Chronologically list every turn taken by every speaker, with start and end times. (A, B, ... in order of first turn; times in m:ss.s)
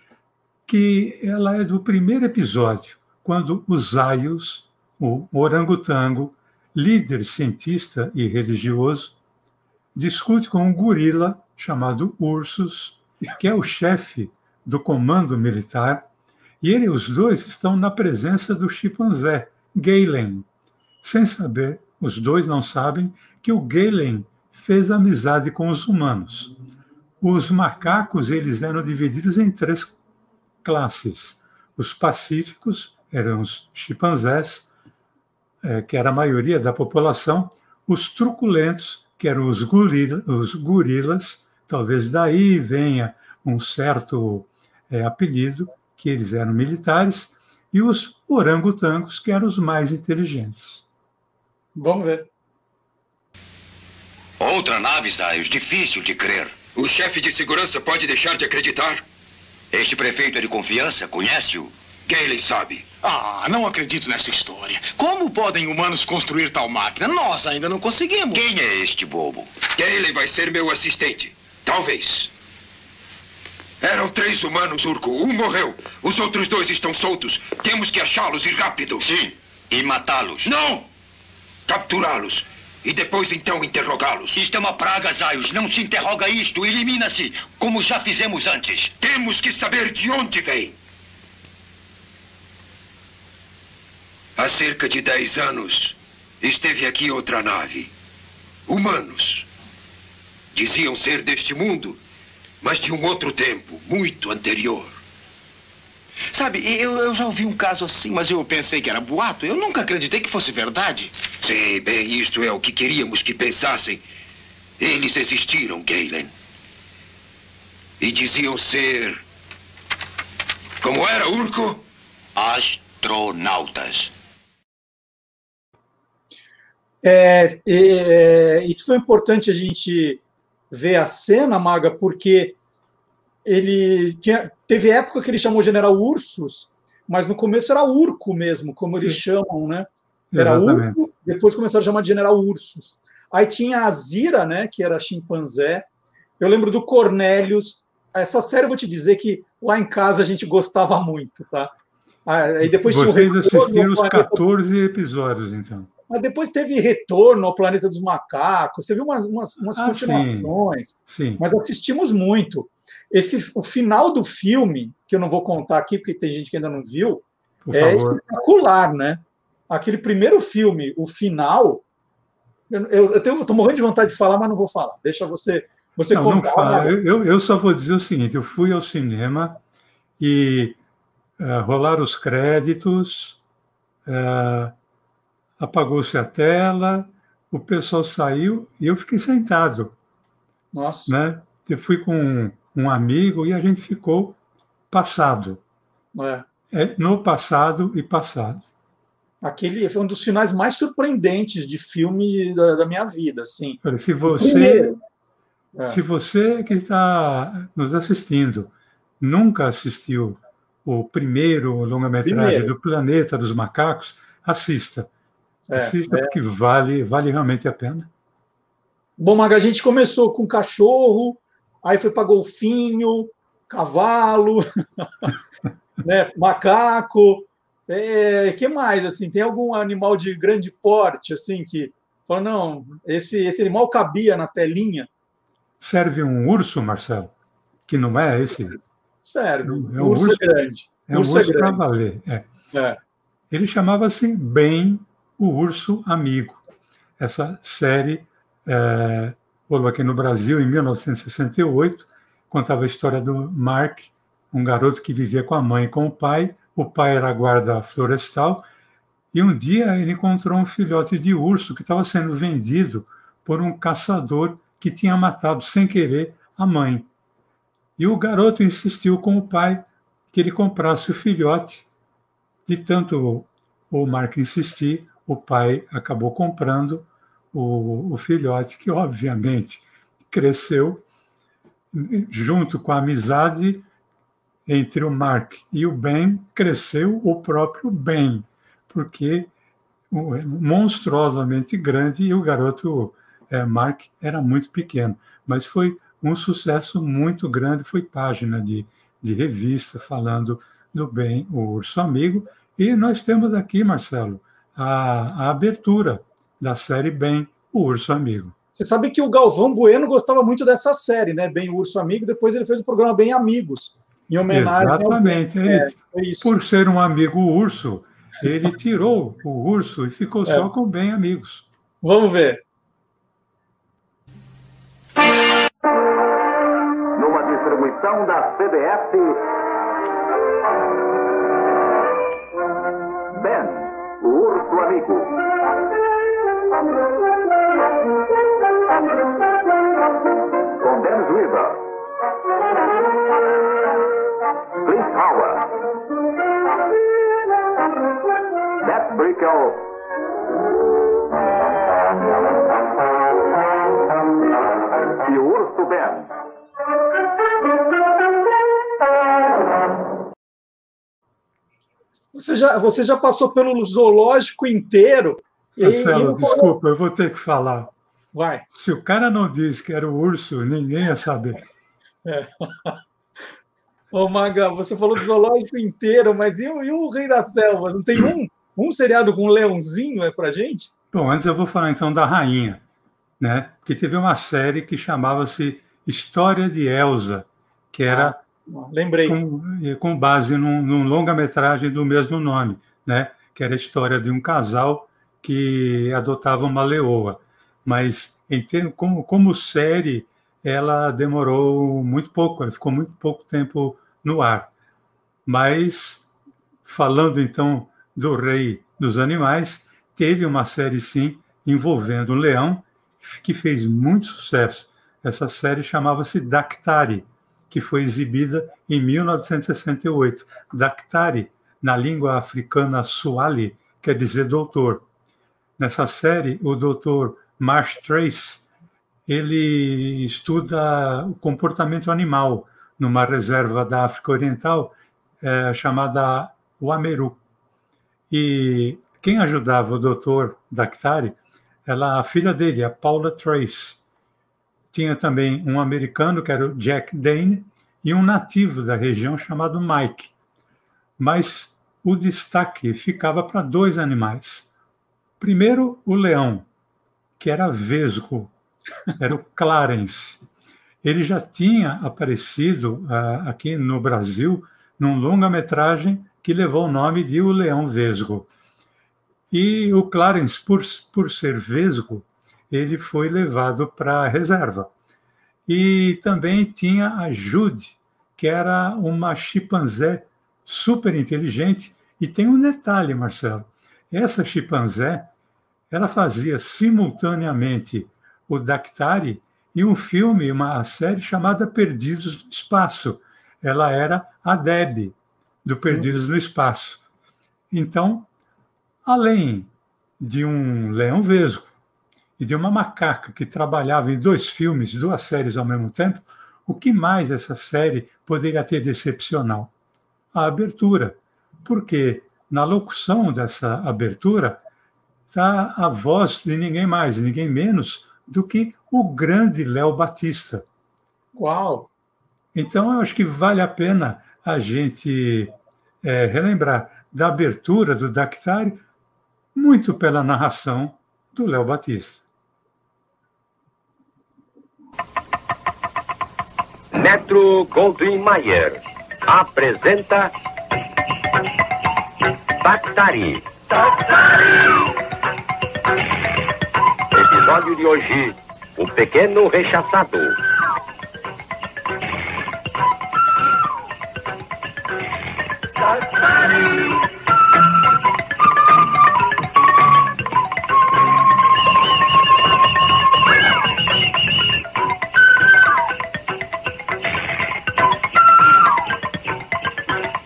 0:00.7-0:09.2 A
0:10.0-0:16.1 A
0:16.6-0:20.5 A
0:21.0-0:26.5 A
0:27.2-0:29.9 A
0:30.6-0:34.7 A
0:35.6-0:50.8 A
0:51.8-0:52.3 B
0:54.4-0:56.6 C
0:56.8-0:59.0 D
0:59.7-1:01.7 C
1:02.1-1:02.9 D
1:03.0-1:08.4 E
1:08.3-1:09.5 C
1:09.8-1:12.3 D
1:13.8-1:19.1 D
1:19.0-1:20.5 C
1:20.4-1:20.9 D
1:21.7-1:24.4 D
1:24.4-1:28.9 C
1:29.0-1:30.8 D
1:34.4-1:37.9 D
1:38.7-1:39.5 D
1:40.5-1:42.0 D
1:42.6-1:45.0 D
1:46.3-1:51.1 E
1:51.4-1:54.0 D
1:54.8-1:56.3 D
1:58.0-1:59.2 D
2:00.8-2:01.8 D
2:02.4-2:04.1 C
2:07.0-2:12.6 B
2:13.4-2:25.9 B
2:20.3-2:21.0 A
2:26.4-2:31.7 B
2:32.3-2:34.4 B
2:32.6-2:35.9 A
2:36.1-2:51.8 B
2:39.8-2:40.5 A
2:41.1-2:41.4 A
2:47.6-2:48.2 A
2:52.7-2:57.0 B
2:56.1-2:59.6 A
3:00.2-3:00.8 A
3:01.4-3:03.4 A
3:04.1-3:04.7 A
3:05.6-3:09.9 A
3:10.7-3:11.2 B
3:11.1-3:14.4 A
3:14.9-3:15.6 A
3:16.2-3:16.4 B
3:16.7-3:18.6 A
3:19.4-3:25.0 B
3:23.8-3:25.0 A
3:25.9-3:35.1 A
3:32.2-3:32.7 B
3:35.7-3:36.4 B
3:35.7-3:38.1 A
3:39.2-3:44.6 B
3:46.0-3:55.1 B
3:55.8-3:57.3 A
3:57.9-3:58.8 A
3:59.2-4:01.8 B
3:59.6-4:00.5 A
4:01.1-4:02.5 A
4:02.7-4:03.0 B
4:03.5-4:06.6 A
4:07.2-4:18.6 A
4:19.3-4:27.1 A
4:28.0-4:31.9 A
4:32.7-4:41.0 A
4:41.9-4:43.8 A
4:44.7-4:49.5 A
4:50.1-5:08.6 A
5:08.7-5:16.5 B
5:14.5-5:21.7 A
5:22.0-5:22.6 B
5:27.2-5:29.5 F
5:33.3-5:35.4 F
5:40.8-5:41.8 F
5:44.8-5:45.7 F
5:48.8-5:49.9 F
5:55.2-5:56.3 F
6:02.3-6:06.8 B
6:05.8-6:07.9 A
6:08.3-6:08.7 B
6:08.7-6:11.6 A
6:12.2-6:13.0 B
6:14.1-6:20.9 B
6:21.1-6:22.8 A
6:23.4-6:28.4 A
6:28.1-6:29.4 B
6:29.2-6:44.7 A
6:45.4-6:46.2 A
6:46.8-7:05.1 A
7:05.8-7:08.6 A
7:09.3-7:17.4 A
7:18.3-7:24.0 A
7:24.9-7:30.3 A
7:31.2-7:34.7 A
7:35.4-7:36.7 A
7:37.4-7:38.5 A
7:39.2-7:40.4 A
7:41.0-7:48.5 A
7:49.5-7:54.9 A
7:55.7-8:05.3 A
8:05.9-8:17.0 A
8:17.7-8:18.3 A
8:19.0-8:21.7 A
8:22.4-8:29.7 A
8:30.3-8:34.6 A
8:35.3-8:40.6 A
8:41.4-8:41.9 B
8:42.5-8:48.8 A
8:49.6-8:52.2 A
8:56.9-9:00.3 G
9:02.6-9:03.4 G
9:07.1-9:10.4 G